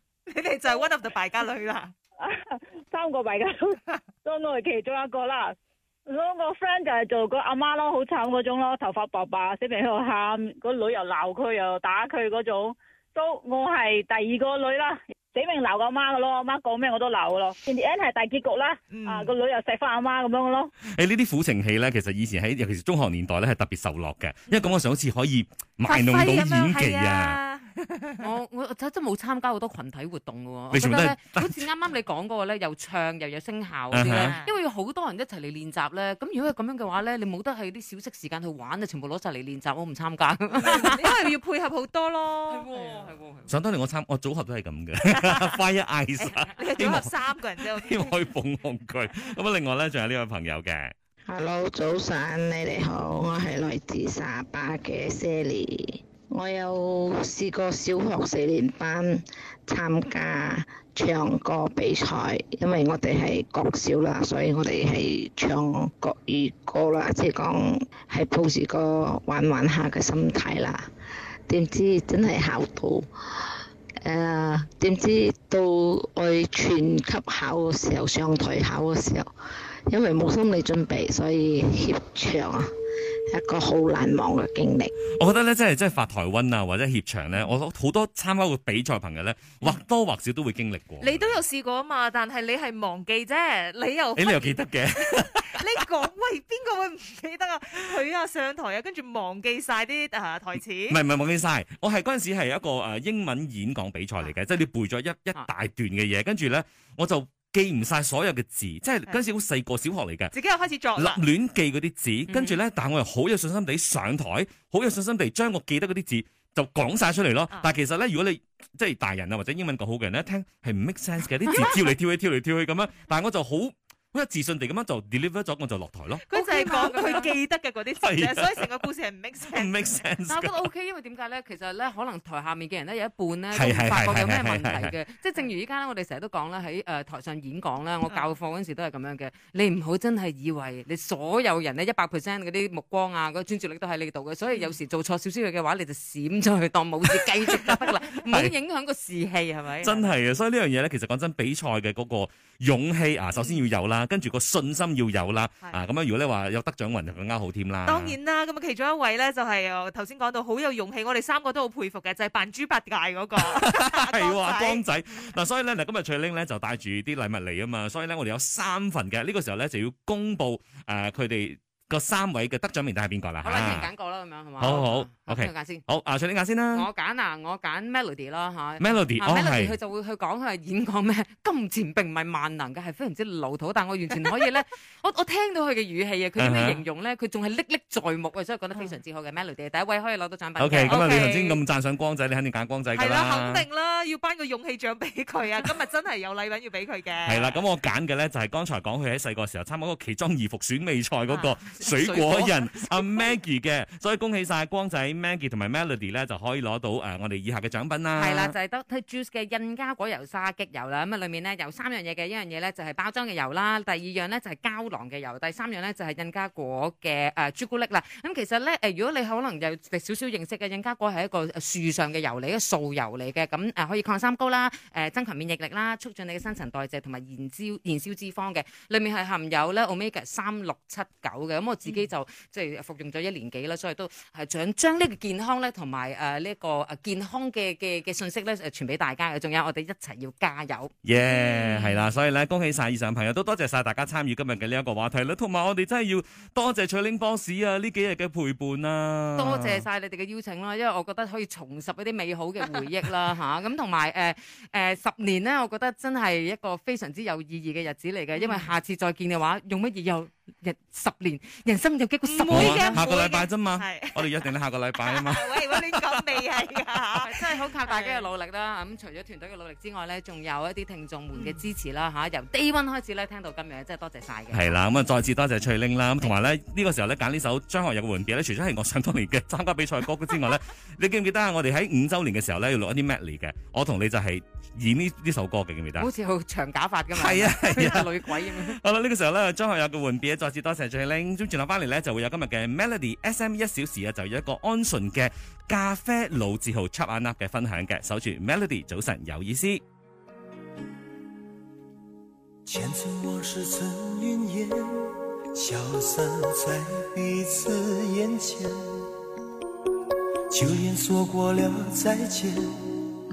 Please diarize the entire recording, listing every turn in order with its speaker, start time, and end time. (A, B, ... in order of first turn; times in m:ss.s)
0:00.3-0:01.9 A
0:02.2-0:20.7 B
0:18.9-0:19.3 A
0:20.9-0:27.4 C
0:25.8-0:28.1 A
0:28.2-0:41.2 D
0:30.7-0:31.6 C
0:33.9-0:34.4 C
0:34.0-0:34.5 A
0:40.5-0:43.2 A
0:42.5-0:43.6 D
0:43.5-0:47.1 C
0:46.2-0:48.1 A
0:47.8-0:50.9 C
0:51.3-1:10.9 E
1:11.5-1:13.1 E
1:14.0-1:19.3 E
1:19.9-1:22.7 E
1:23.3-1:24.9 E
1:25.2-1:31.3 C
1:31.0-1:41.0 A
1:34.2-1:35.4 C
1:40.9-1:50.3 C
1:50.3-1:51.2 A
1:51.0-2:06.3 C
1:52.3-1:52.6 D
2:01.5-2:01.8 D
2:06.3-2:10.0 A
2:06.3-2:07.4 D
2:08.0-2:08.6 C
2:09.5-2:10.6 C
2:10.3-2:30.1 D
2:13.5-2:15.0 C
2:28.3-2:28.5 C
2:29.8-2:38.2 C
2:37.9-2:44.8 A
2:43.5-2:53.9 C
2:53.4-2:55.8 D
2:54.6-2:56.9 C
2:56.7-3:11.1 D
2:58.8-2:59.8 C
3:06.4-3:06.8 C
3:10.6-3:13.6 C
3:10.9-3:11.6 A
3:12.9-3:17.6 A
3:17.3-3:28.6 C
3:21.3-3:22.9 D
3:28.1-4:01.8 D
4:01.0-4:09.8 C
4:09.3-4:23.1 D
4:18.4-4:18.7 A
4:22.2-4:24.3 A
4:22.5-4:26.2 C
4:25.0-4:28.3 A
4:27.2-4:34.8 D
4:31.3-4:31.6 A
4:34.5-4:46.1 C
4:46.0-4:48.8 D
4:47.1-4:59.8 C
5:02.6-5:09.1 F
5:10.5-5:13.0 F